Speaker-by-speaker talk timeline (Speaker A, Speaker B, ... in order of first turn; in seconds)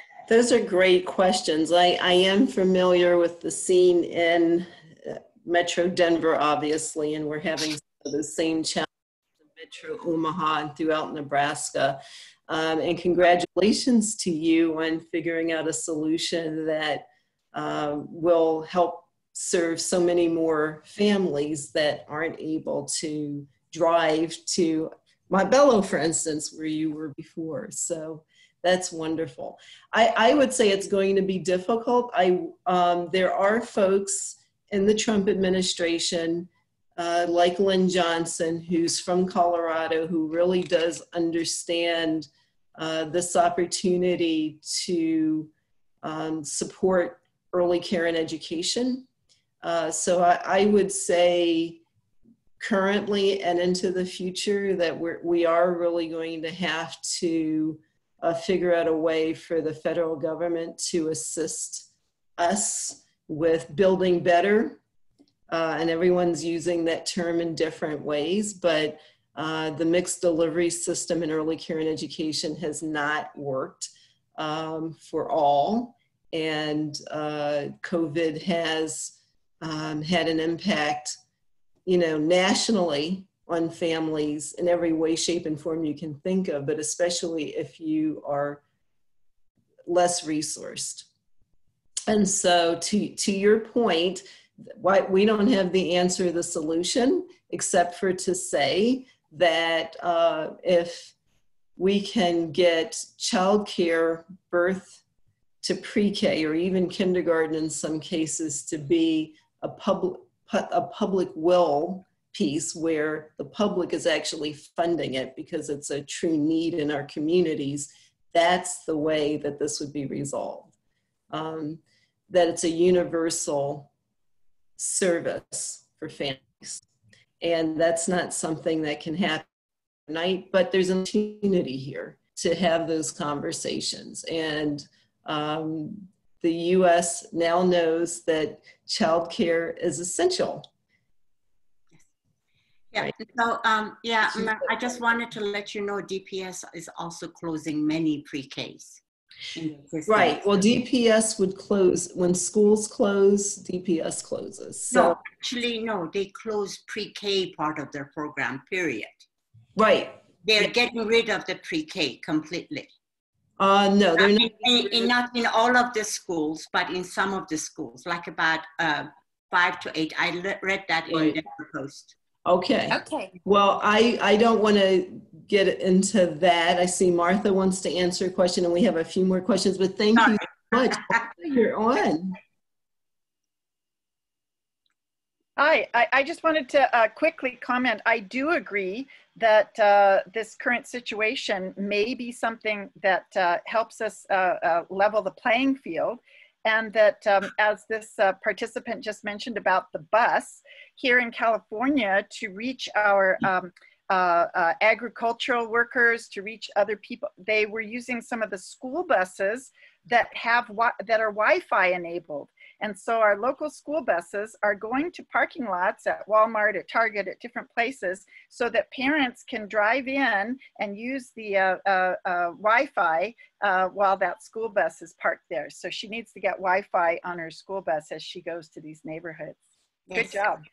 Speaker A: 0.3-8.9, 9.5-45.5, 46.0-49.0, 49.6-51.8, 52.6-64.8, 65.5-81.2, 81.8-88.6, 89.9-91.1, 92.1-101.1, 101.8-105.0, 105.6-120.7, 121.3-123.9, 124.8-126.8, 127.4-129.4, 130.1-140.7, 144.3-144.7, 150.1-155.2, 159.8-160.2, 163.6-165.1, 171.1-171.4, 172.4-182.4
Speaker B: 142.9-149.0, 149.5-150.7, 154.9-159.2, 160.4-162.9, 164.2-172.1, 230.1-230.4
Speaker C: 185.6-229.6, 230.1-230.6